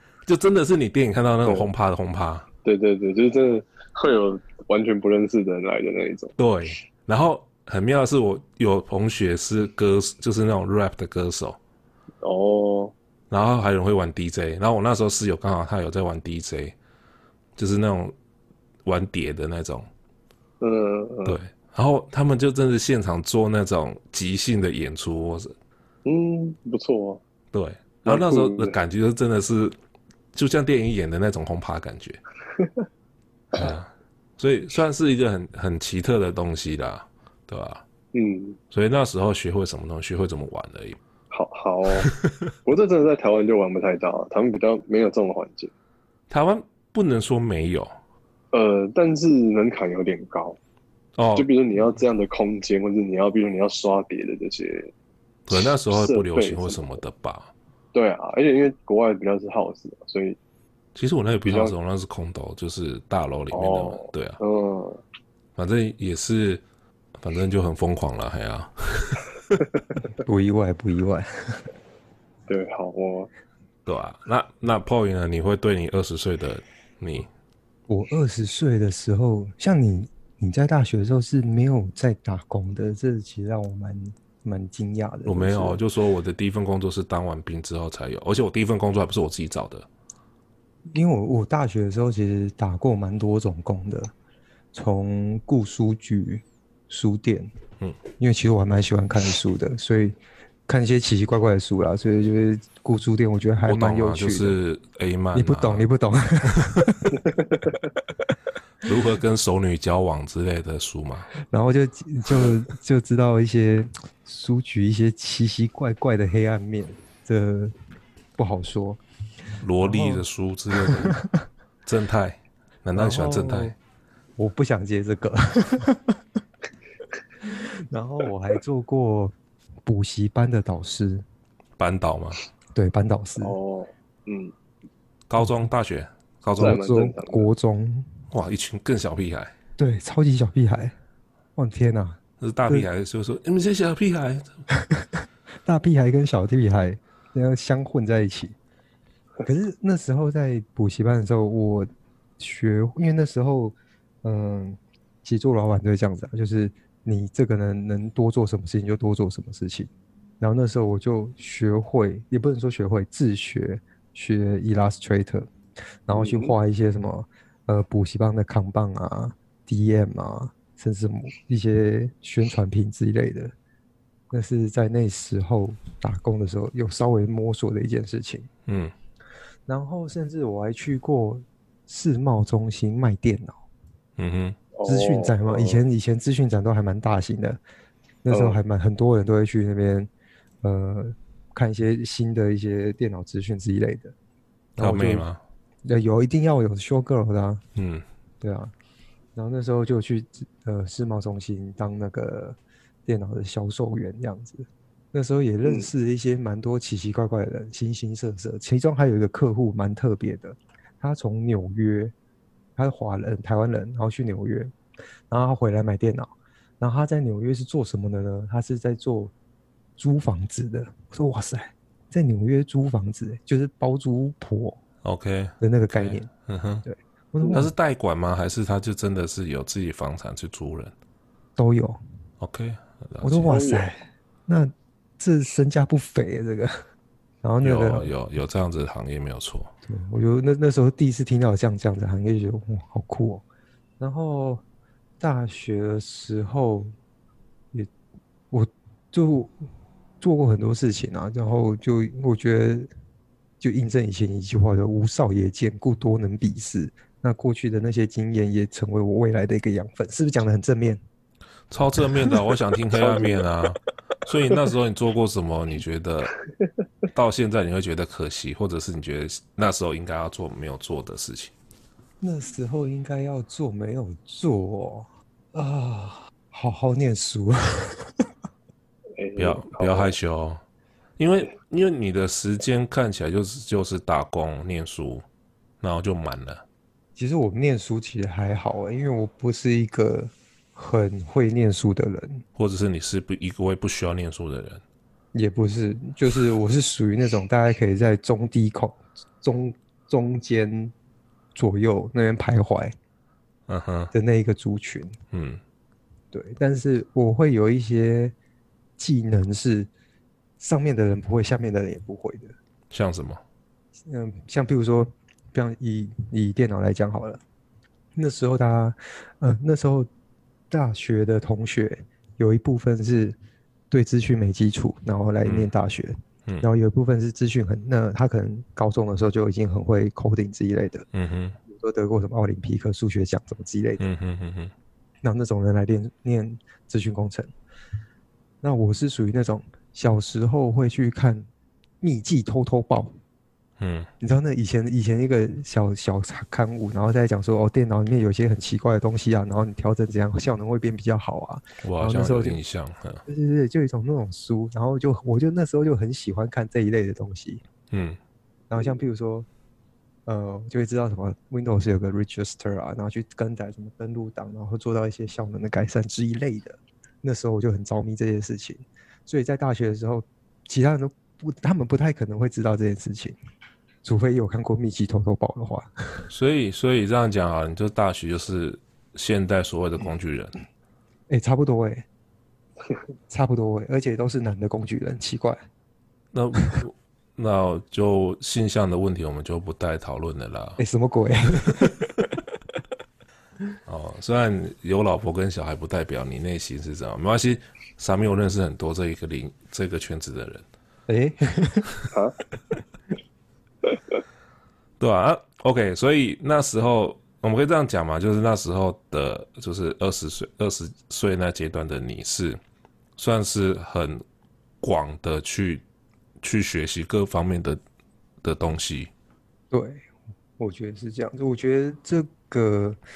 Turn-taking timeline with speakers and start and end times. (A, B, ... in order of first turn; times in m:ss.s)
0:00.3-0:02.5 A
0:01.4-0:01.7 B
0:02.6-0:06.3 B
0:06.4-0:11.6 A
0:12.2-0:12.9 B
0:13.3-0:16.7 A
0:17.6-0:18.1 A
0:18.8-0:19.9 A
0:20.6-0:21.4 B
0:21.2-0:25.5 A
0:26.0-0:27.2 B
0:27.5-0:29.7 A
0:28.0-0:28.8 B
0:30.3-0:32.2 A
0:33.5-0:37.8 A
0:38.1-0:38.6 B
0:38.7-0:41.0 A
0:41.3-0:42.1 B
0:42.6-0:45.7 B
0:46.3-0:47.9 A
0:48.5-0:50.6 B
0:51.2-0:51.5 A
0:51.4-0:54.9 B
0:55.5-0:57.5 A
0:55.5-0:57.0 B
0:57.9-1:00.4 B
1:01.0-1:04.4 A
1:01.4-1:01.7 B
1:03.5-1:05.0 B
1:05.6-1:06.6 A
1:07.2-1:09.6 A
1:10.2-1:11.6 C
1:12.5-1:13.3 B
1:13.8-1:17.3 A
1:17.9-1:25.8 C
1:25.2-1:29.9 A
1:30.9-1:34.1 C
1:34.7-1:37.5 C
1:38.2-1:44.6 C
1:43.7-1:45.9 A
1:45.3-1:47.2 C
1:48.8-1:51.3 A
1:51.5-1:57.7 C
1:58.4-1:59.0 C
1:59.6-2:01.2 A
1:59.8-2:00.2 C
2:00.8-2:01.4 C
2:01.8-2:03.7 A
2:02.9-2:03.7 C
2:04.4-2:06.2 C
2:07.4-2:11.2 C
2:11.8-2:12.4 A
2:12.7-2:13.6 C
2:13.4-2:14.5 B
2:15.3-2:16.8 A
2:16.6-2:17.5 B
2:16.6-2:18.1 C
2:18.3-2:19.5 A
2:19.8-2:20.9 C
2:21.6-2:22.9 C
2:22.4-2:24.5 A
2:24.8-2:28.6 C
2:29.4-2:39.9 C
2:40.4-2:45.5 C
2:46.1-2:53.5 C
2:46.1-2:46.5 B
2:54.3-2:58.5 C
2:58.7-2:58.9 A
2:59.7-3:03.6 C
3:04.2-3:04.6 A
3:04.7-3:05.8 B
3:04.8-3:07.6 C
3:08.2-3:10.1 C
3:08.3-3:08.6 B
3:10.6-3:14.1 C
3:14.8-3:15.4 A
3:14.8-3:15.2 C
3:15.8-3:17.6 C
3:17.8-3:18.0 A
3:18.4-3:18.7 C
3:19.3-3:32.1 C
3:32.8-3:34.7 C
3:35.3-3:39.3 C
3:40.0-3:44.8 C
3:45.0-3:46.8 A
3:45.6-3:46.3 C
3:46.8-3:47.7 C
3:47.5-3:50.9 A
3:51.6-3:52.0 C
3:52.4-3:53.5 A
3:53.2-3:56.8 C
3:53.5-3:53.9 B
3:57.4-3:58.1 C
3:57.6-3:59.7 A
3:59.8-4:03.4 C
4:04.0-4:04.6 C
4:05.2-4:06.9 C
4:08.5-4:09.6 C
4:10.2-4:12.9 C
4:13.6-4:21.0 C
4:21.7-4:26.3 A
4:22.9-4:23.5 B
4:27.1-4:31.5 A
4:32.2-4:38.3 C
4:39.2-4:40.2 B
4:39.4-4:40.6 A
4:41.2-4:45.2 A
4:45.8-4:46.6 A
4:47.2-4:52.4 C
4:52.6-4:54.8 A
4:55.3-5:00.9 C
5:01.5-5:02.9 C
5:03.7-5:04.1 A
5:04.1-5:05.1 C
5:05.3-5:05.6 A
5:06.3-5:08.3 C
5:09.0-5:09.9 C
5:10.6-5:12.5 C
5:12.9-5:13.4 A
5:14.0-5:17.4 C
5:18.1-5:20.1 C
5:20.7-5:23.4 C
5:23.9-5:31.1 C
5:25.4-5:25.7 A
5:31.1-5:31.6 A
5:31.6-5:34.0 C
5:34.0-5:34.7 A
5:35.2-5:37.5 C
5:38.6-5:41.5 C
5:42.0-5:43.1 C
5:43.8-5:44.1 A
5:44.2-5:52.6 C
5:51.8-5:53.2 A
5:53.2-5:57.6 C
5:57.9-5:58.2 A
5:58.7-5:59.5 C
6:00.2-6:13.4 C
6:14.0-6:16.2 C
6:16.3-6:20.6 A
6:21.3-6:22.0 C
6:23.3-6:25.6 C
6:26.3-6:30.8 A
6:30.8-6:31.9 C
6:33.8-6:40.6 A
6:41.1-6:41.9 C
6:42.1-6:42.4 B
6:45.0-6:52.6 A
6:53.2-6:54.2 A
6:54.8-6:55.8 A
6:56.4-6:57.8 A
6:58.4-6:59.1 A
6:59.7-7:03.0 C